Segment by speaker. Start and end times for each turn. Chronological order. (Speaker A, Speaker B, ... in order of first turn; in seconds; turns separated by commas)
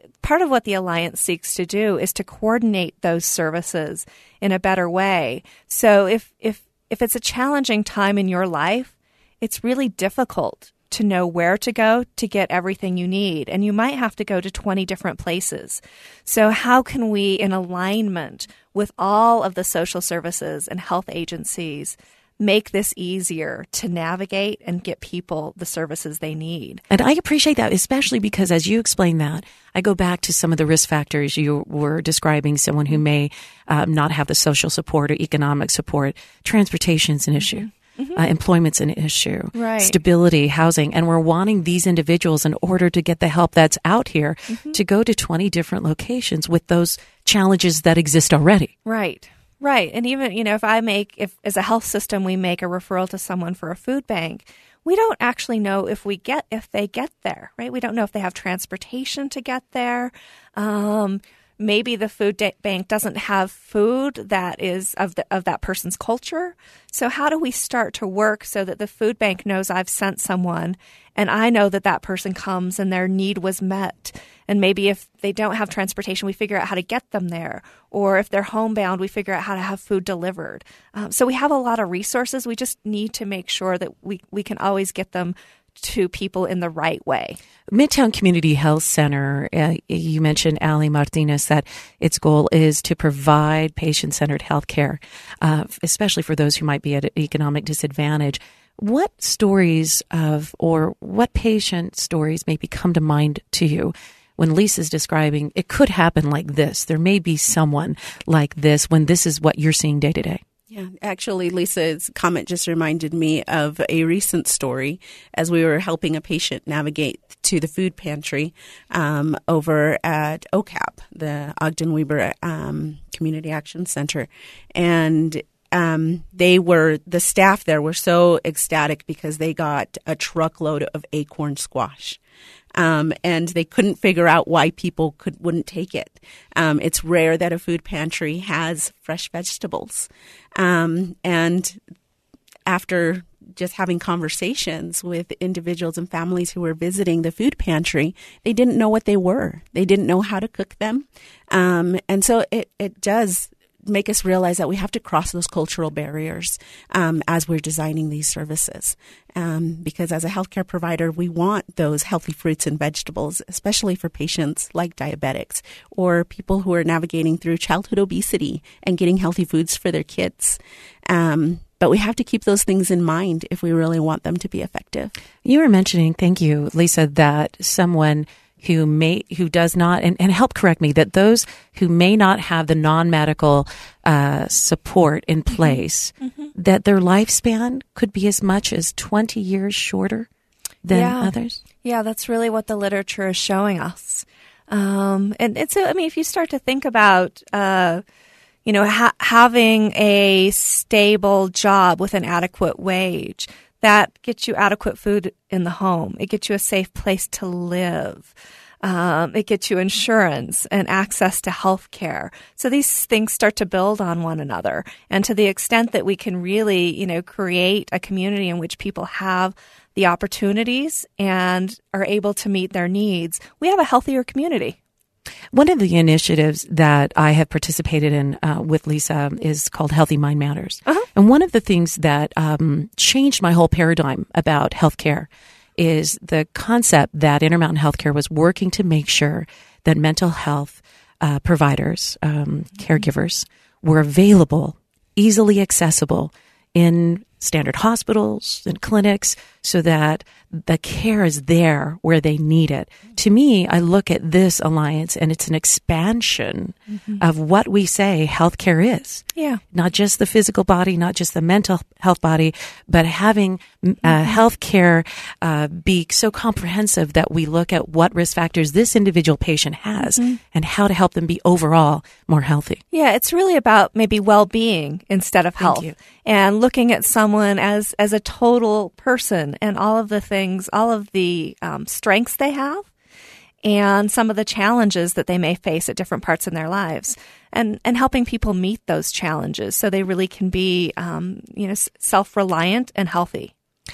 Speaker A: 0.2-26.8, Speaker B: 26.9-48.7, Speaker A: 37.4-38.2, Speaker A: 39.5-40.0, Speaker A: 44.5-44.8, Speaker A: 48.9-87.4, Speaker B: 87.7-110.4, Speaker C: 110.7-132.2, Speaker C: 132.8-141.8, Speaker C: 142.7-175.1, Speaker B: 175.4-190.3, Speaker A: 185.5-186.5, Speaker B: 190.8-191.6, Speaker A: 190.9-191.3, Speaker A: 191.8-198.0, Speaker A: 198.7-224.8, Speaker B: 225.5-272.8, Speaker A: 259.4-259.6, Speaker A: 264.0-264.4, Speaker A: 270.0-270.4, Speaker A: 272.9-282.9, Speaker B: 275.6-275.9, Speaker A: 283.6-293.5